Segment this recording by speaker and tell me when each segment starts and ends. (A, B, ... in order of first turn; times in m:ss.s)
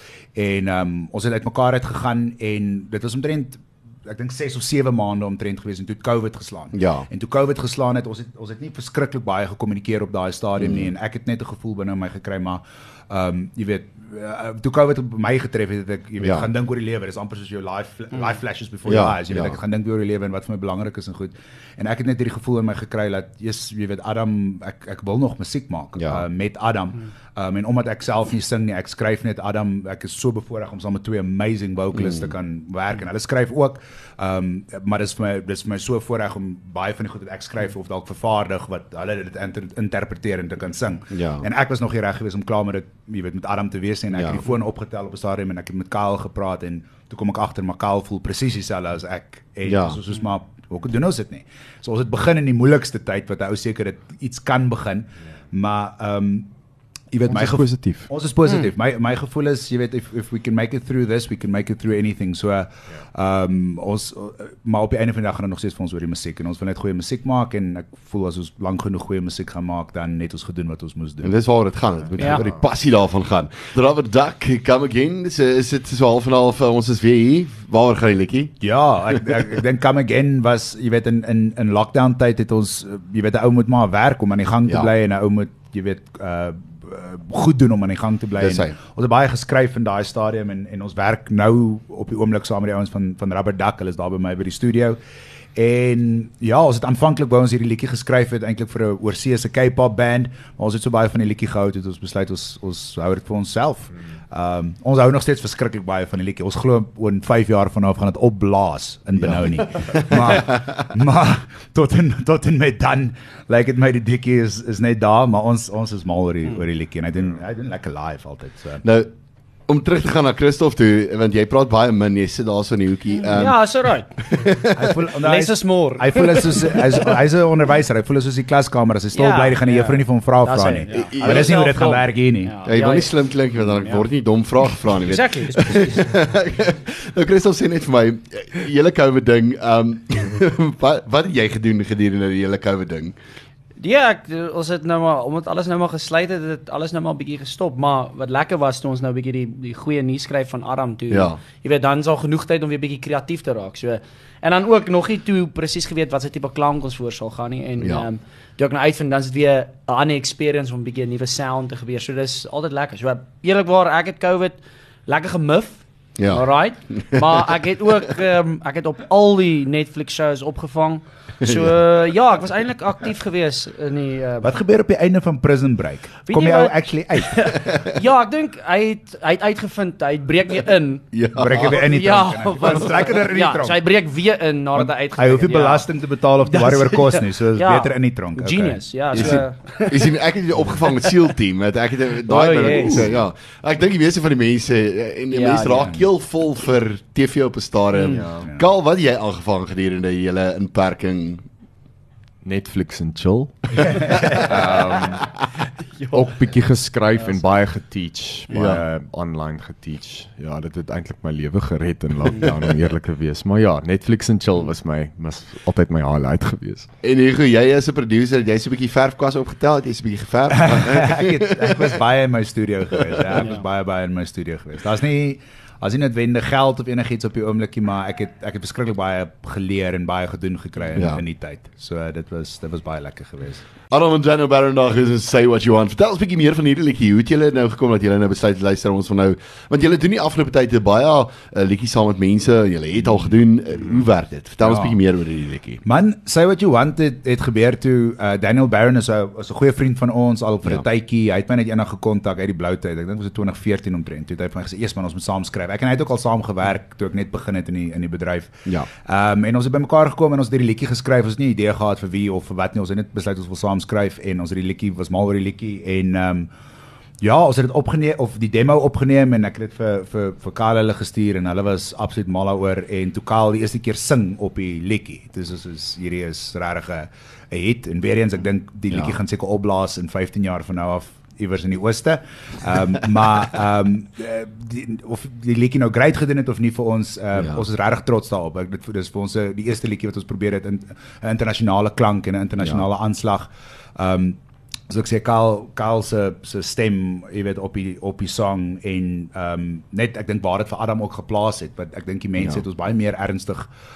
0:00.3-0:56.5 A
0:06.7-0:07.1 B
0:10.6-0:10.9 B
0:16.2-0:16.5 B
0:18.8-0:19.6 B
0:26.0-0:26.2 B
0:31.9-0:32.3 B
0:41.1-0:41.5 B
0:44.1-0:44.4 B
0:49.6-0:50.0 B
0:57.1-1:11.3 A
0:57.3-0:58.1 C
1:11.2-1:18.6 B
1:12.2-1:12.4 D
1:18.6-1:35.0 A
1:28.4-1:28.8 B
1:35.5-1:58.8 A
1:49.2-1:50.8 B
1:58.8-1:59.1 B
1:59.7-2:03.6 B
2:03.3-2:04.3 D
2:04.2-2:05.0 B
2:04.7-2:12.5 A
2:05.2-2:07.2 D
2:09.1-2:13.1 D
2:10.9-2:11.6 B
2:12.6-2:23.2 B
2:13.7-2:14.0 D
2:14.6-2:16.2 D
2:23.8-2:54.5 D
2:31.1-2:31.4 B
2:37.8-2:38.1 B
2:46.2-2:47.4 B
2:51.4-2:51.8 B
2:54.4-2:57.5 A
2:56.3-3:05.9 D
2:57.5-2:57.9 B
3:01.1-3:01.8 B
3:01.4-3:03.8 A
3:04.7-3:09.4 A
3:06.4-3:10.1 D
3:09.1-3:21.4 B
3:10.8-3:11.3 D
3:12.2-3:13.1 D
3:15.3-3:16.0 D
3:17.9-3:18.3 D
3:18.1-3:18.5 C
3:18.4-3:18.7 A
3:22.4-3:25.4 C
3:26.1-3:36.9 C
3:28.5-3:28.8 B
3:37.0-3:41.7 B
3:40.6-3:53.6 A
3:43.3-3:43.6 D
3:50.9-3:51.2 B
3:53.9-4:05.8 B
4:04.6-4:05.0 A
4:05.8-4:26.5 A
4:27.2-5:03.7 A
4:47.3-4:47.6 B